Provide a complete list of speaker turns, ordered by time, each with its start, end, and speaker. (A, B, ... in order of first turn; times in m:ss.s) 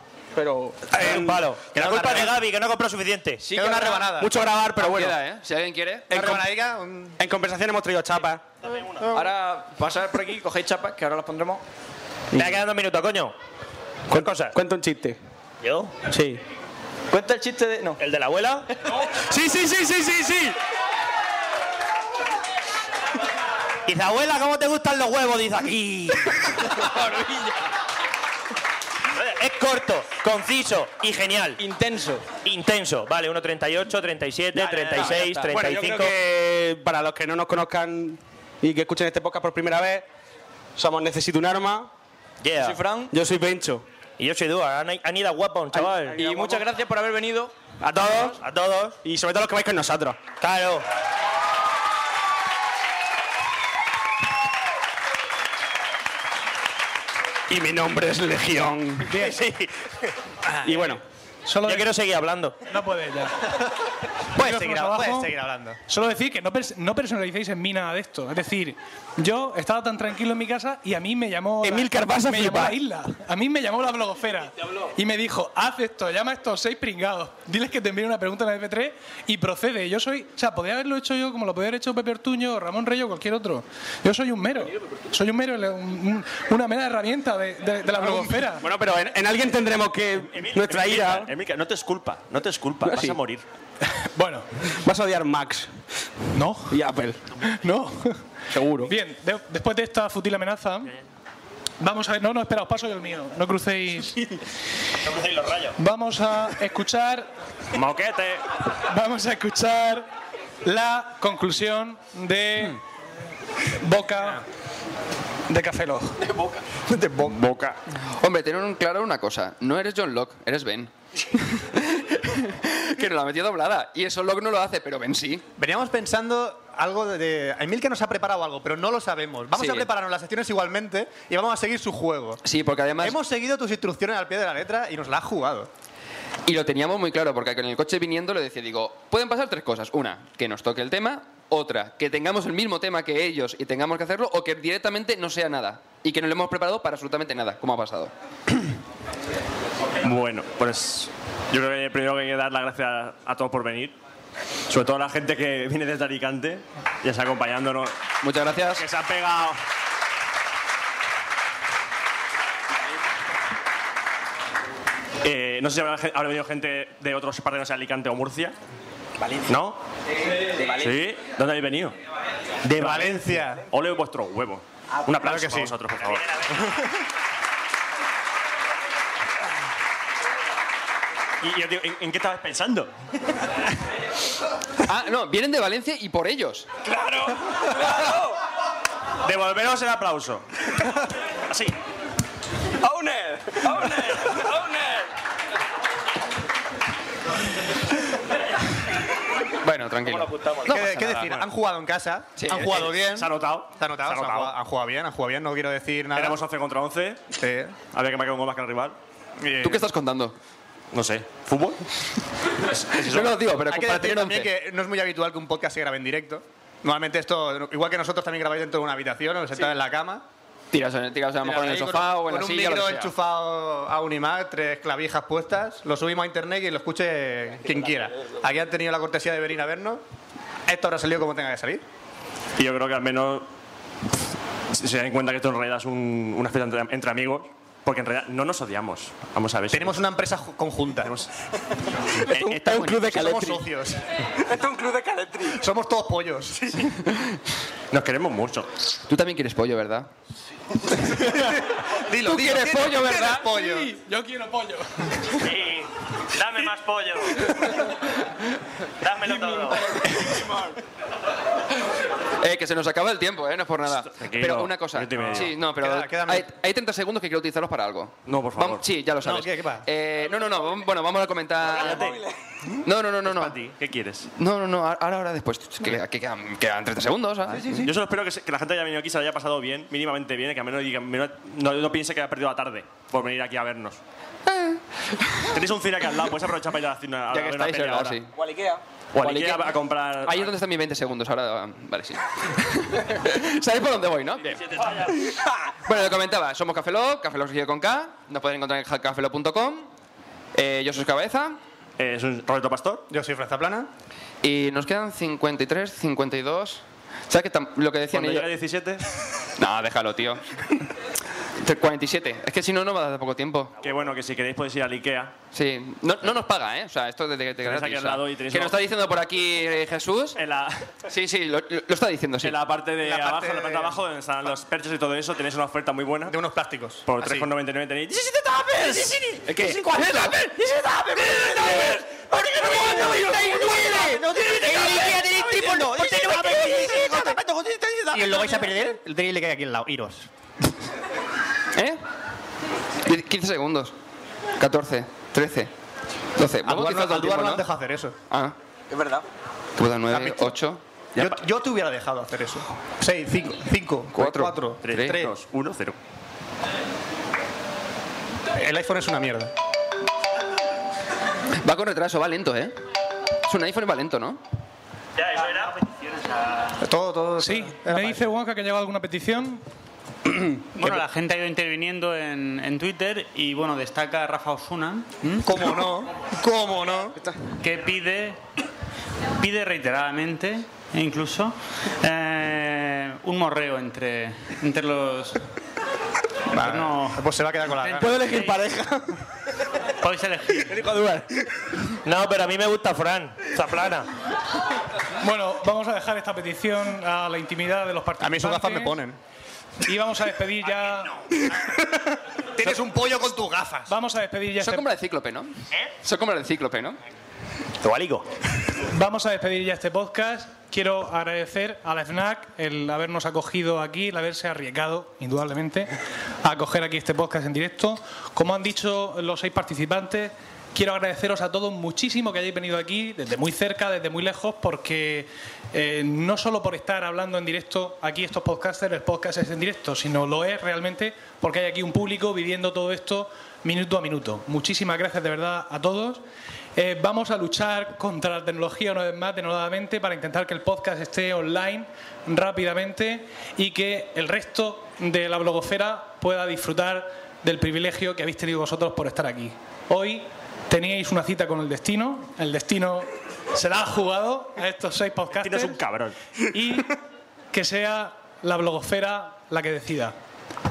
0:00.3-0:01.5 A
0:00.9-0:03.5 B
0:01.8-0:02.3 C
0:03.4-0:04.1 D
0:03.5-0:04.3 C
0:03.6-0:05.2 A
0:04.8-0:06.1 E
0:06.1-0:06.5 A
0:06.1-0:07.2 C
0:07.2-0:08.4 A
0:09.1-0:11.6 D
0:12.3-0:12.6 A
0:12.3-0:13.3 B
0:14.1-0:14.6 B
0:14.1-0:15.2 A
0:15.6-0:16.0 B
0:16.1-0:16.4 A
0:17.1-0:18.0 D
0:18.0-0:18.7 B
0:19.3-0:20.6 A
0:23.8-0:26.9 B
0:27.1-0:27.5 D
0:29.1-0:31.6 B
0:31.6-0:32.2 D
0:32.4-0:36.2 B
0:34.6-0:40.0 A
0:34.6-0:35.6 D
0:40.8-0:41.9 A
0:42.4-0:42.8 B
0:42.6-0:43.1 D
0:43.1-0:43.8 A
0:44.2-0:46.2 B
0:45.7-0:46.7 A
0:46.2-0:47.7 D
0:47.8-0:48.4 A
0:48.2-0:49.0 B
0:49.0-0:50.2 A
0:50.4-0:50.8 B
0:57.5-0:59.2 A
0:59.1-0:59.7 B
1:00.6-1:01.0 A
1:01.4-1:01.9 F
1:01.6-1:02.6 B
1:02.7-1:03.5 F
1:04.4-1:05.8 C
1:04.4-1:05.3 F
1:05.9-1:28.7 F
1:11.6-1:12.8 A
1:28.0-1:31.3 A
1:30.3-1:33.4 G
1:32.8-1:33.2 A
1:34.1-1:34.5 F
1:34.8-1:35.7 A
1:36.3-1:36.8 F
1:36.7-1:37.2 A
1:37.4-1:38.2 F
1:38.5-1:38.9 A
1:38.8-1:40.9 F
1:41.8-1:44.2 F
1:45.0-1:45.7 B
1:45.8-1:47.3 F
1:47.7-1:48.4 G
1:48.8-1:50.0 F
1:50.6-1:52.8 F
1:53.8-1:54.4 F
1:55.5-1:56.2 F
1:56.9-1:57.8 A
1:58.2-2:05.4 E
2:05.6-2:12.4 C
2:09.5-2:09.9 E
2:12.4-2:13.2 E
2:13.0-2:15.7 C
2:16.4-2:28.1 E
2:30.0-2:34.0 G
2:34.7-2:37.9 G
2:38.2-2:38.8 E
2:38.8-2:39.6 G
2:45.2-2:48.5 G
2:49.4-2:49.8 G
2:50.6-2:51.9 G
2:52.6-2:56.6 G
2:52.7-2:53.6 C
2:55.2-2:55.7 C
3:01.4-3:02.9 G
3:04.8-3:06.7 E
3:06.8-3:08.3 A
3:09.2-3:10.4 G
3:11.5-3:11.8 G
3:12.8-3:15.0 A
3:19.6-3:21.1 E
3:20.2-3:20.7 B
3:20.6-3:26.4 C
3:20.8-3:21.5 G
3:22.4-3:22.8 E
3:22.5-3:24.5 G
3:26.1-3:29.0 G
3:27.4-3:27.8 C
3:29.4-3:29.8 C
3:29.6-3:30.3 E
3:30.9-3:31.8 G
3:32.6-3:33.4 G
3:33.0-3:34.5 E
3:33.7-3:40.2 C
3:40.7-3:43.1 E
3:41.4-3:50.0 C
3:50.7-3:51.8 C
3:52.6-3:53.5 G
3:54.7-4:00.0 G
3:59.7-4:01.1 C
4:02.2-4:03.6 A
4:02.3-4:02.9 G
4:02.9-4:04.0 C
4:04.4-4:05.6 A
4:05.5-4:06.6 C
4:06.6-4:06.8 A
4:07.9-4:08.7 G
4:09.1-4:10.1 E
4:12.0-4:13.9 C
4:12.2-4:13.8 A
4:12.3-4:13.2 E
4:14.0-4:14.8 F
4:15.4-4:17.6 B
4:19.0-4:20.0 B
4:22.4-4:32.1 E
4:23.9-4:25.6 G
4:25.6-4:26.5 C
4:28.3-4:28.8 G
4:29.2-4:29.8 C
4:31.7-4:32.2 G
4:32.8-4:33.6 E
4:33.2-4:34.3 G
4:34.4-4:37.9 E
4:37.8-4:44.0 G
4:44.5-4:45.5 E
4:45.5-4:48.2 G
4:47.3-4:48.3 E
4:49.1-4:50.5 G
4:49.1-4:55.3 E
4:55.8-4:59.9 E
5:00.5-5:01.6 E
5:02.0-5:03.0 G
5:03.1-5:03.9 C
5:04.4-5:08.5 E
5:08.1-5:09.0 G
5:09.6-5:10.4 E
5:11.6-5:13.7 E
5:13.8-5:15.3 G
5:15.5-5:20.4 E
5:17.6-5:18.8 G
5:20.4-5:20.9 G
5:21.1-5:22.6 E
5:22.4-5:26.4 G
5:23.0-5:24.0 C
5:26.3-5:27.5 C
5:27.0-5:29.2 G
5:29.4-5:30.5 E
5:29.6-5:30.6 A
5:31.2-5:35.1 A
5:34.1-5:37.4 C
5:34.9-5:35.4 D
5:36.1-5:36.6 D
5:38.1-5:40.3 C
5:43.0-5:43.9 E
5:44.6-5:45.7 E
5:46.4-5:47.7 E
5:46.6-5:48.2 C
5:48.3-5:48.5 E
5:49.8-5:50.8 E
5:50.1-5:50.5 C
5:51.2-5:51.4 G
5:51.2-5:55.3 C
5:54.1-5:55.2 E
5:54.8-5:56.0 G
5:58.6-5:59.5 C
6:01.6-6:02.7 E
6:03.5-6:04.4 E
6:05.2-6:05.8 B
6:06.8-6:08.2 C
6:07.4-6:09.6 F
6:10.3-6:10.9 A
6:10.8-6:15.6 H
6:15.4-6:17.2 C
6:17.6-6:18.4 H
6:19.4-6:25.4 H
6:26.5-6:28.3 C
6:26.6-6:27.2 H
6:27.8-6:29.2 A
6:28.2-6:28.6 H
6:30.0-6:30.8 H
6:30.7-6:31.5 A
6:32.0-6:34.1 B
6:35.2-6:39.0 F
6:38.2-6:39.2 C
6:39.8-6:41.2 F
6:42.6-6:43.9 C
6:43.9-6:44.8 F
6:44.6-6:47.0 E
6:47.8-6:48.2 B
6:48.9-6:55.9 F
6:56.4-7:16.2 F
7:16.8-7:35.8 F
7:35.4-7:36.2 G
7:36.5-7:37.0 F
7:37.5-7:40.1 F